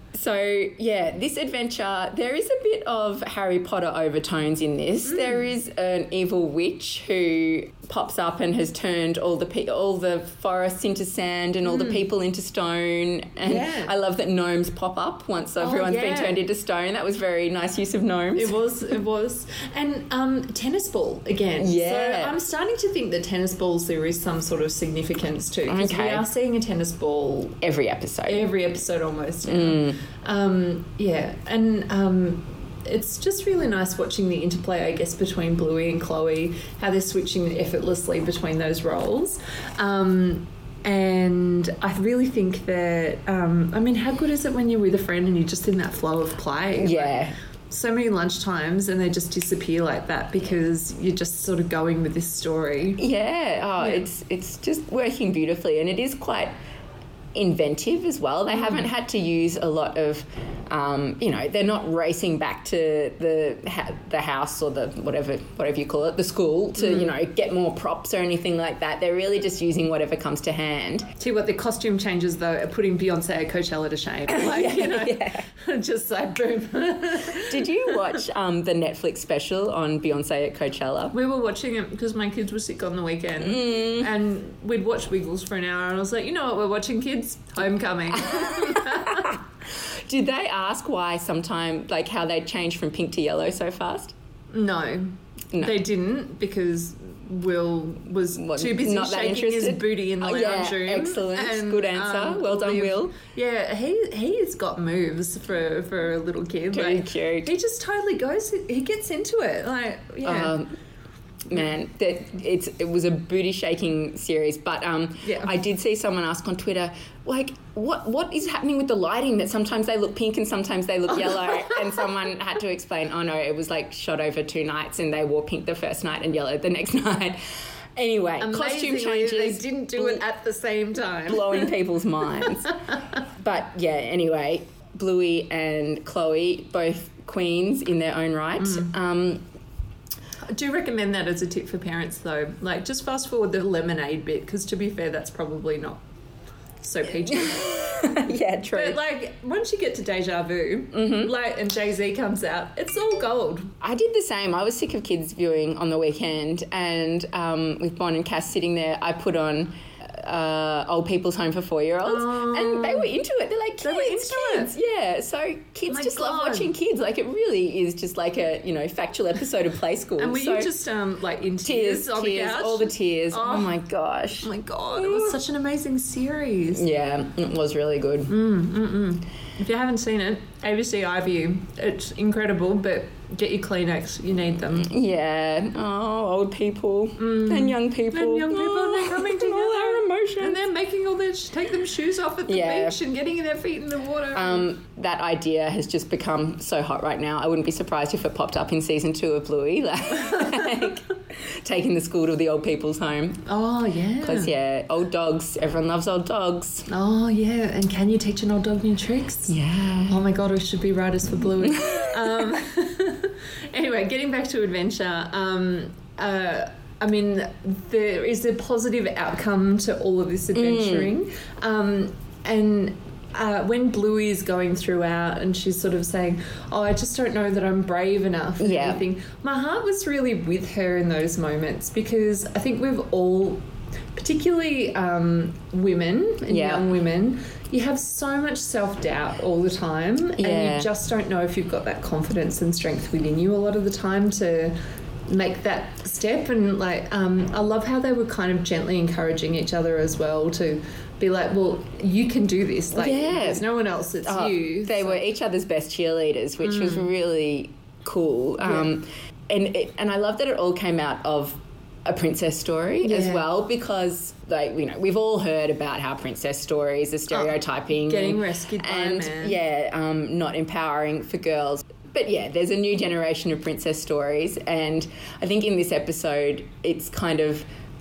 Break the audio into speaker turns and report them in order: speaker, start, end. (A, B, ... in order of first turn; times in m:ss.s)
0:00.1-0:18.6 A
0:05.0-0:05.4 B
0:11.6-0:12.0 B
0:13.4-0:13.9 B
0:15.6-0:16.4 B
0:18.4-0:27.6 B
0:21.6-0:22.4 A
0:25.7-0:26.2 A
0:27.6-0:28.4 A
0:28.2-0:53.0 B
0:29.4-0:30.0 A
0:46.8-0:47.3 A
0:53.0-0:56.5 A
0:53.8-0:54.0 B
0:57.3-1:11.1 A
0:58.5-0:58.8 B
1:11.2-1:18.1 B
1:14.3-1:15.4 A
1:17.2-1:21.2 A
1:21.1-1:29.4 B
1:23.4-1:24.1 A
1:28.1-1:34.1 A
1:34.5-1:50.6 B
1:35.5-1:35.8 A
1:38.4-1:43.2 A
1:46.7-1:47.5 A
1:50.2-1:50.8 A
1:51.5-2:07.4 A
1:55.2-1:55.5 B
2:01.3-2:01.7 B
2:07.9-2:10.2 A
2:08.4-2:11.7 B
2:11.3-2:12.8 A
2:13.4-2:19.4 A
2:18.6-2:18.9 B
2:20.5-2:26.0 B
2:26.8-2:28.1 B
2:27.3-2:29.0 A
2:28.7-2:33.7 B
2:30.9-2:31.3 A
2:33.8-2:50.7 A
2:42.0-2:43.1 B
2:43.8-2:44.7 B
2:45.9-2:46.7 B
2:50.2-2:53.8 B
2:51.6-2:55.4 A
2:54.4-2:56.8 B
2:56.7-2:58.3 A
2:58.3-3:04.9 B
3:04.8-3:10.6 A
3:07.2-3:14.7 B
3:12.5-3:13.0 A
3:14.3-3:23.4 A
3:20.2-3:20.8 B
3:23.4-3:24.5 B
3:24.2-3:26.9 A
3:26.9-3:29.6 B
3:29.5-3:30.2 A
3:30.1-3:53.6 B
3:31.6-3:32.3 A
3:40.5-3:41.1 A
3:48.6-3:49.0 A
3:54.1-4:04.8 B
3:56.4-3:56.8 A
4:00.4-4:00.9 A
4:05.3-4:15.2 B
4:12.9-4:13.6 A
4:14.2-4:37.7 A
4:16.6-4:17.1 B
4:18.6-4:18.9 B
4:23.0-4:23.4 B
4:27.3-4:29.6 B